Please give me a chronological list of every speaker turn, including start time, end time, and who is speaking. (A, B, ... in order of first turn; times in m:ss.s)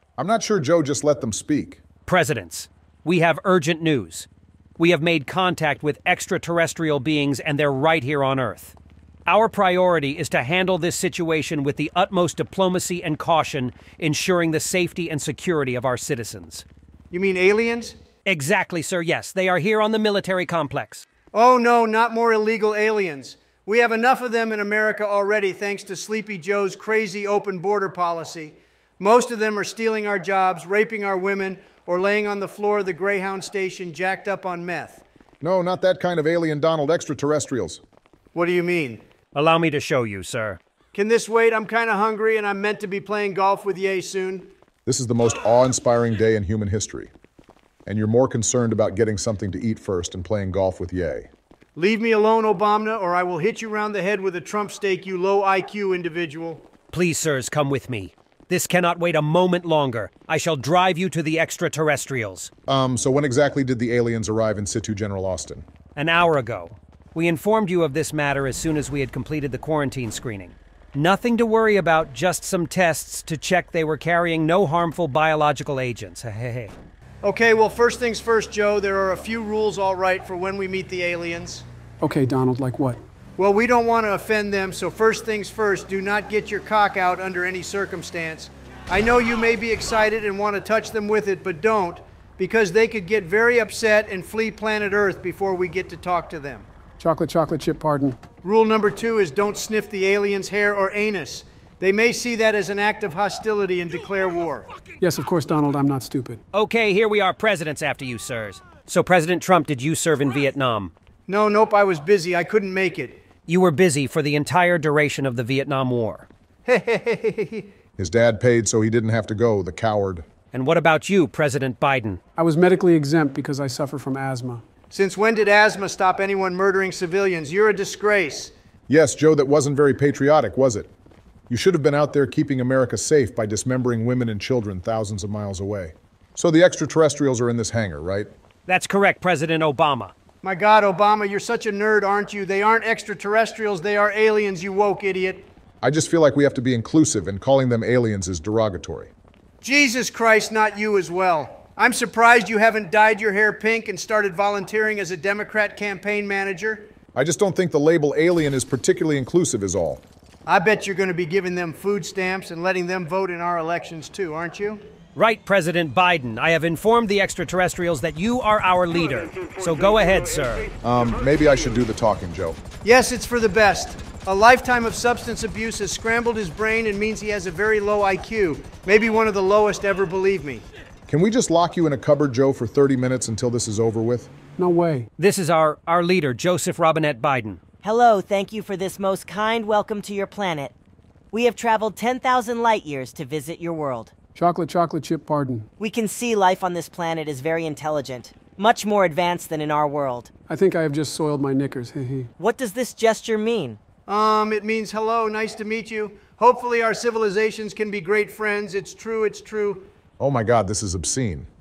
0:00.2-0:01.8 A
0:02.0-0:08.7 B
0:09.2-0:16.6 B
0:17.1-0:18.0 C
0:18.2-0:21.0 B
0:21.3-0:35.0 C
0:35.4-0:37.8 A
0:38.3-0:39.0 C
0:39.3-0:40.6 B
0:40.9-0:44.5 C
0:44.8-0:47.1 A
0:47.8-0:51.3 A
0:51.8-0:56.6 C
0:56.9-1:02.5 B
1:02.7-1:05.6 A
1:06.0-1:16.7 B
1:17.2-1:21.6 C
1:22.0-1:23.0 D
1:23.4-1:36.6 C
1:37.0-1:38.2 D
1:38.4-1:44.7 C
1:45.0-1:46.4 D
1:46.5-1:50.9 B
1:51.3-1:53.2 C
1:53.5-1:56.2 B
1:56.6-1:57.7 C
1:58.0-2:00.2 A
2:00.5-2:02.2 B
2:02.4-2:04.6 D
2:04.9-2:08.5 C
2:08.9-2:10.9 A
2:11.5-2:18.3 A
2:18.7-2:20.1 B
2:20.4-2:25.5 C
2:25.8-2:29.1 A
2:29.6-2:36.9 C
2:37.1-2:40.0 A
2:40.4-2:44.8 C
2:45.1-2:50.7 B
2:50.8-2:52.6 A
2:52.8-3:00.6 C
3:01.1-3:04.3 A
3:04.6-3:05.1 D
3:05.2-3:07.6 B
3:07.8-3:10.7 E
3:11.3-3:14.1 E
3:14.3-3:15.7 D
3:15.8-3:20.3 E
3:20.5-3:22.3 D
3:22.4-3:23.8 E
3:24.1-3:29.9 C
3:30.2-3:31.5 A